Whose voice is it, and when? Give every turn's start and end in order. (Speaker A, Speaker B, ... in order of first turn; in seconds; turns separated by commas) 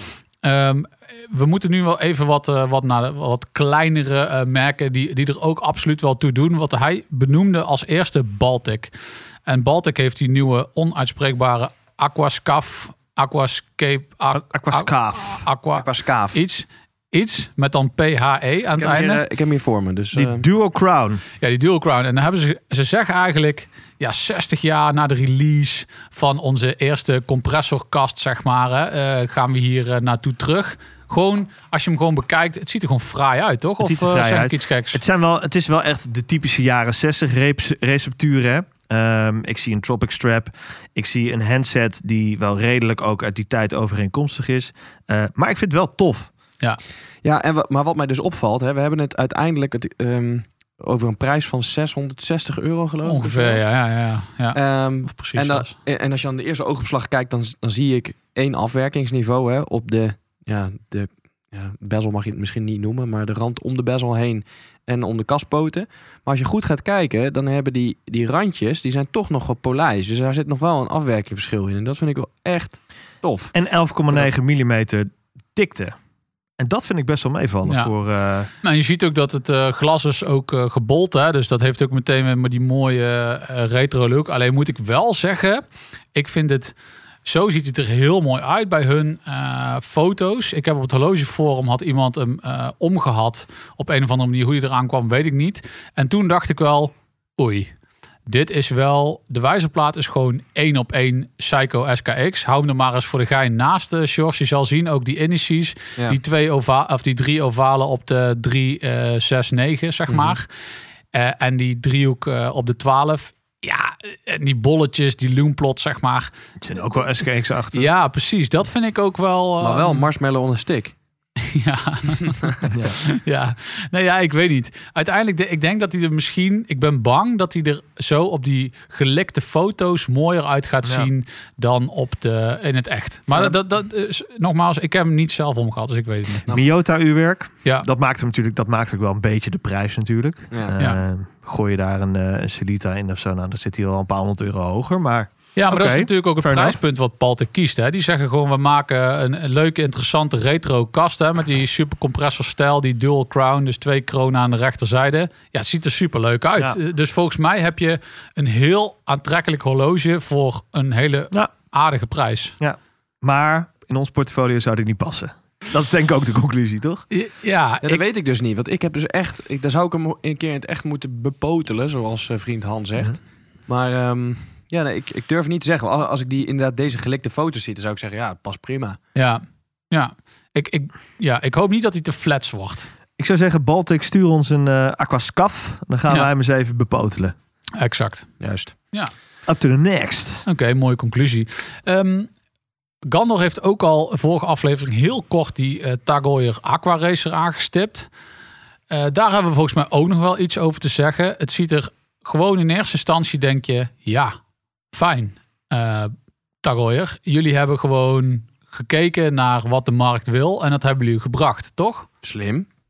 Speaker A: 0.4-8.9, Speaker A: 9.4-19.2, Speaker B: 14.3-15.4, Speaker C: 15.8-16.4, Speaker C: 18.8-20.4, Speaker B: 20.1-21.2, Speaker A: 21.4-35.0, Speaker B: 33.8-46.3, Speaker C: 47.2-53.6, Speaker A: 53.0-55.7, Speaker C: 54.5-73.5, Speaker B: 73.5-76.0, Speaker B: 76.6-78.5, Speaker A: 77.7-77.9, Speaker A: 78.6-85.6, Speaker A: 86.1-86.7, Speaker A: 87.2-97.7, Speaker A: 98.3-110.5, Speaker C: 110.1-110.4, Speaker A: 111.1-116.3, Speaker B: 116.6-117.9, Speaker A: 117.7-120.0, Speaker C: 119.6-120.9, Speaker A: 121.4-136.5, Speaker B: 122.7-123.0, Speaker B: 130.8-131.1, Speaker B: 136.5-146.8, Speaker A: 145.6-162.5, Speaker B: 162.6-167.0, Speaker A: 167.1-168.0, Speaker C: 167.8-179.0, Speaker A: 179.1-182.9, Speaker B: 183.2-187.3, Speaker A: 187.8-188.4, Speaker C: 188.4-188.7, Speaker B: 189.5-190.4, Speaker A: 190.4-192.3, Speaker A: 193.1-198.1, Speaker A: 198.9-204.3, Speaker A: 204.9-212.1, Speaker C: 212.2-212.7